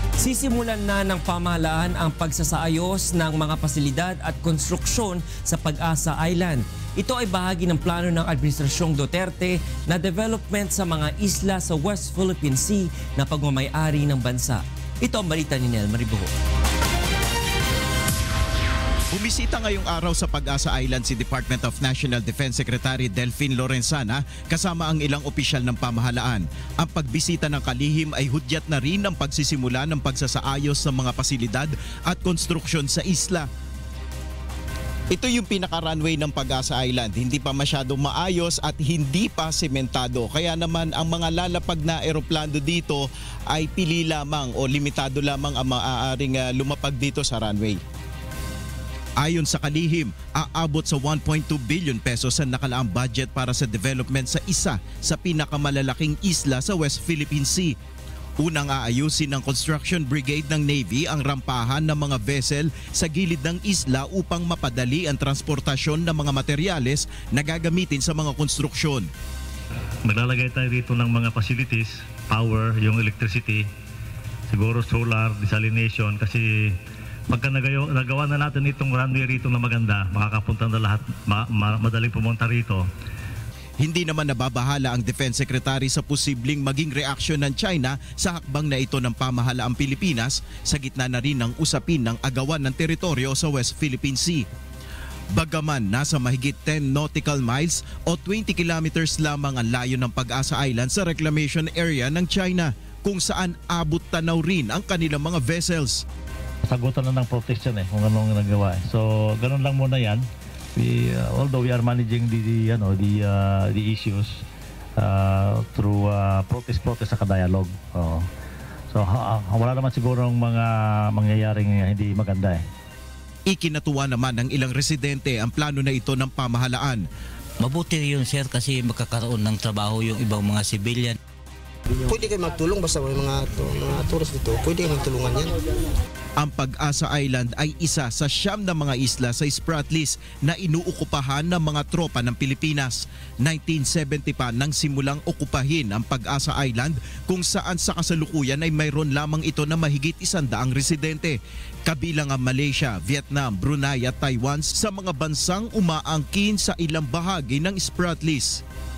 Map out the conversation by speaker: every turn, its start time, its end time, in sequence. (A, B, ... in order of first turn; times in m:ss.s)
0:00.2-0:16.3 A
0:19.1-0:33.5 B
0:35.1-0:47.8 B
0:49.2-0:57.7 B
0:58.4-1:09.1 B
1:10.0-1:13.6 C
1:14.5-1:16.7 C
1:17.3-1:22.8 C
1:23.8-1:34.4 B
1:35.3-1:46.0 B
1:46.7-1:50.2 C
1:50.8-1:54.4 C
1:55.0-1:58.2 C
1:58.9-2:02.6 C
2:03.5-2:07.0 B
2:07.6-2:11.2 D
2:12.0-2:15.6 E
2:16.4-2:38.6 B